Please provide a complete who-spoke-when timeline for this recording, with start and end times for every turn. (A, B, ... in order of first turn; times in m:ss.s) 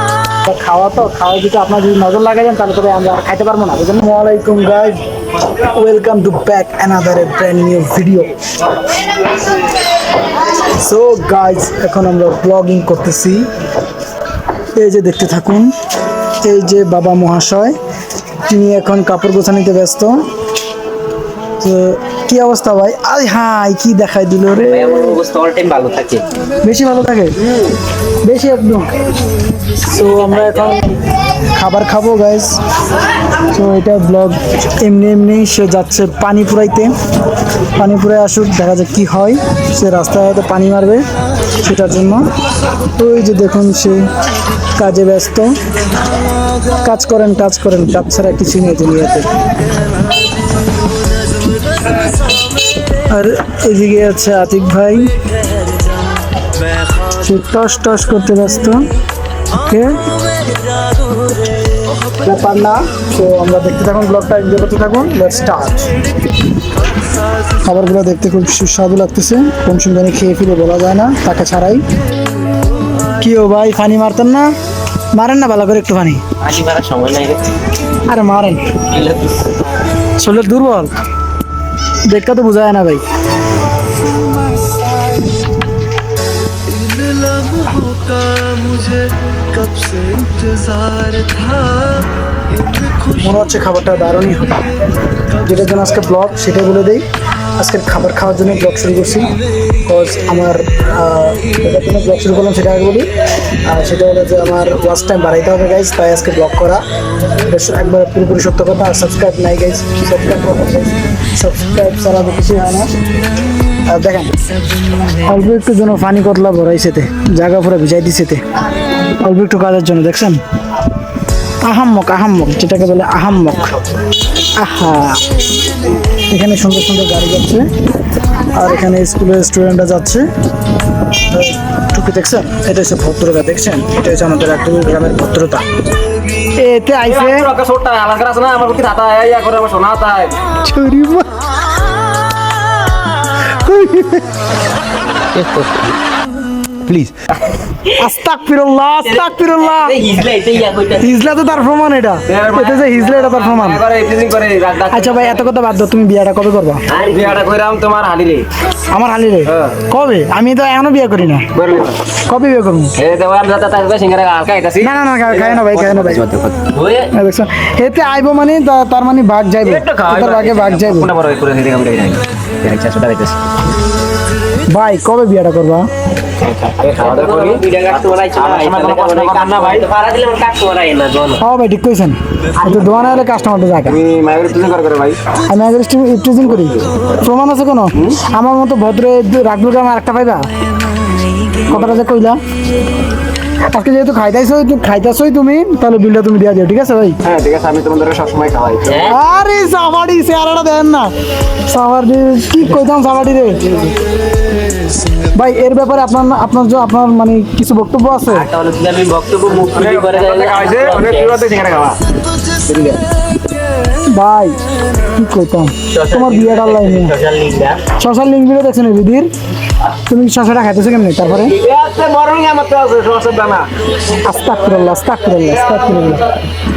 0:00.4-0:08.3 A
0:10.6-0:13.5 A
0:14.7-0:15.7 A
0:16.4-0:17.8 A
0:18.5-0:20.2 A
0:21.6-0:25.2 A
0:24.6-0:26.2 B
0:26.6-0:27.3 A
0:28.2-0:28.9 A
0:29.9-0:30.9 B
0:29.9-0:30.9 A
0:31.5-0:32.6 A
0:33.5-0:36.9 A
0:37.8-0:41.0 A
0:41.6-0:42.2 A
0:43.0-0:44.1 A
0:44.8-0:45.5 A
0:46.8-0:49.3 A
0:53.1-0:55.1 A
0:57.2-0:58.9 A
0:59.6-1:00.0 A
1:02.2-1:05.9 A
1:07.6-1:11.8 A
1:13.2-1:14.5 A
1:15.1-1:16.2 A
1:16.4-1:17.4 B
1:18.1-1:18.7 A
1:18.9-1:19.6 B
1:20.2-1:20.9 A
1:22.0-1:23.0 A
1:33.1-1:34.7 A
1:35.4-1:37.0 A
1:37.6-1:39.3 A
1:39.8-1:43.1 A
1:43.6-1:46.8 A
1:47.5-1:52.9 A
1:53.8-1:54.3 A
1:55.2-1:58.4 A
1:59.2-2:00.4 A
2:01.6-2:03.8 A
2:04.6-2:05.2 A
2:06.3-2:07.7 A
2:08.4-2:10.3 A
2:11.3-2:15.6 A
2:16.6-2:17.5 A
2:17.0-2:20.3 C
2:20.6-2:21.3 A
2:23.4-2:24.3 A
2:25.4-2:25.7 B
2:26.9-2:27.1 A
2:28.0-2:30.0 A
2:29.0-2:31.2 B
2:31.0-2:33.8 A
2:32.3-2:35.4 C
2:34.9-2:36.8 A
2:36.9-2:37.4 B
2:37.0-2:38.5 C
2:38.9-2:41.5 A
2:39.4-2:39.8 C
2:41.5-2:42.0 C
2:42.3-2:42.9 A
2:43.0-2:46.6 C
2:44.8-2:46.2 A
2:46.7-2:47.1 B
2:47.1-2:51.1 A
2:49.6-2:53.3 C
2:54.7-2:55.9 A
2:56.4-2:57.6 C
2:56.8-3:01.4 B
2:58.3-2:59.9 C
3:01.4-3:04.0 A
3:02.6-3:03.0 B
3:03.8-3:05.2 C
3:05.4-3:10.4 A
3:06.6-3:06.9 C
3:11.7-3:12.4 A
3:13.7-3:17.2 A
3:17.2-3:19.1 C
3:18.9-3:19.2 B
3:19.0-3:21.1 A
3:21.7-3:23.6 A
3:25.3-3:28.5 A
3:28.3-3:31.4 B
3:29.7-3:32.0 C
3:32.6-3:33.0 C
3:34.1-3:37.1 A
3:35.9-3:37.8 B
3:38.0-3:39.3 A
3:40.1-3:41.5 A
3:41.3-3:43.7 C
3:44.2-3:46.3 A